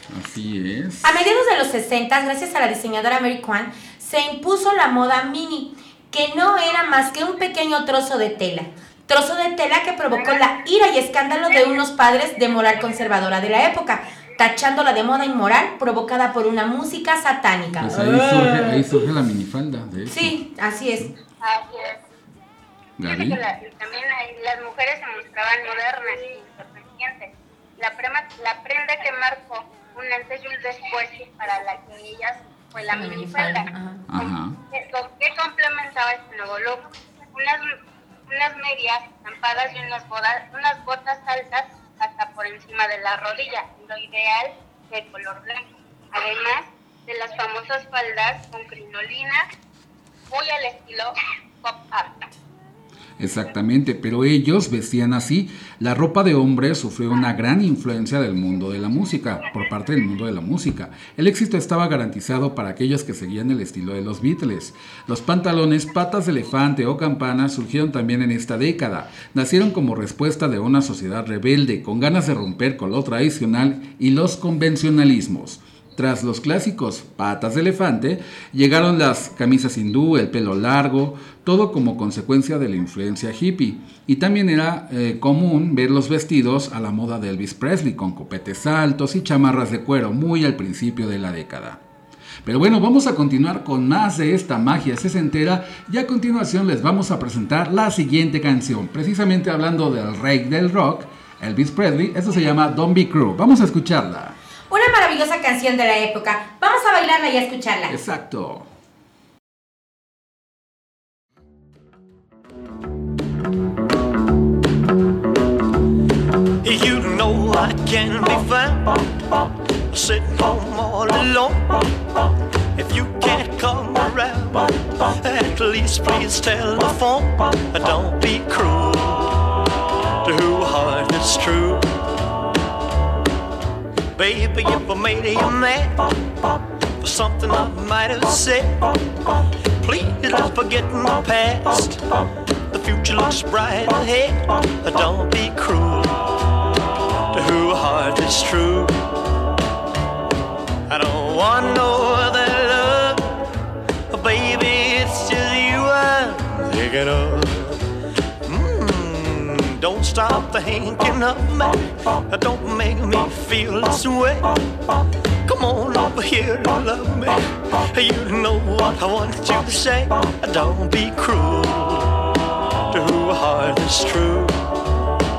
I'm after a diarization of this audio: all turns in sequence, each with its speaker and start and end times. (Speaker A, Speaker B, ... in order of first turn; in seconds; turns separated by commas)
Speaker A: 0.1-1.1, Speaker B: 1.0-19.1, Speaker A: 17.8-20.4, Speaker B: 20.1-21.1, Speaker C: 21.4-22.0, Speaker A: 23.0-23.4, Speaker C: 23.0-37.7, Speaker B: 32.9-34.0, Speaker A: 34.1-34.6, Speaker C: 38.3-49.5, Speaker C: 50.3-52.3, Speaker A: 53.2-91.8, Speaker A: 92.4-104.4, Speaker B: 104.7-107.9, Speaker A: 107.9-108.7, Speaker D: 116.6-119.0, Speaker D: 119.9-121.9, Speaker D: 122.8-129.4, Speaker D: 130.2-131.9, Speaker D: 134.2-136.2, Speaker D: 137.0-139.0, Speaker D: 139.8-142.0, Speaker D: 142.7-146.3, Speaker D: 147.3-149.0, Speaker D: 150.9-153.3, Speaker D: 154.1-157.8, Speaker D: 158.4-164.6, Speaker D: 165.5-172.2, Speaker D: 172.9-174.6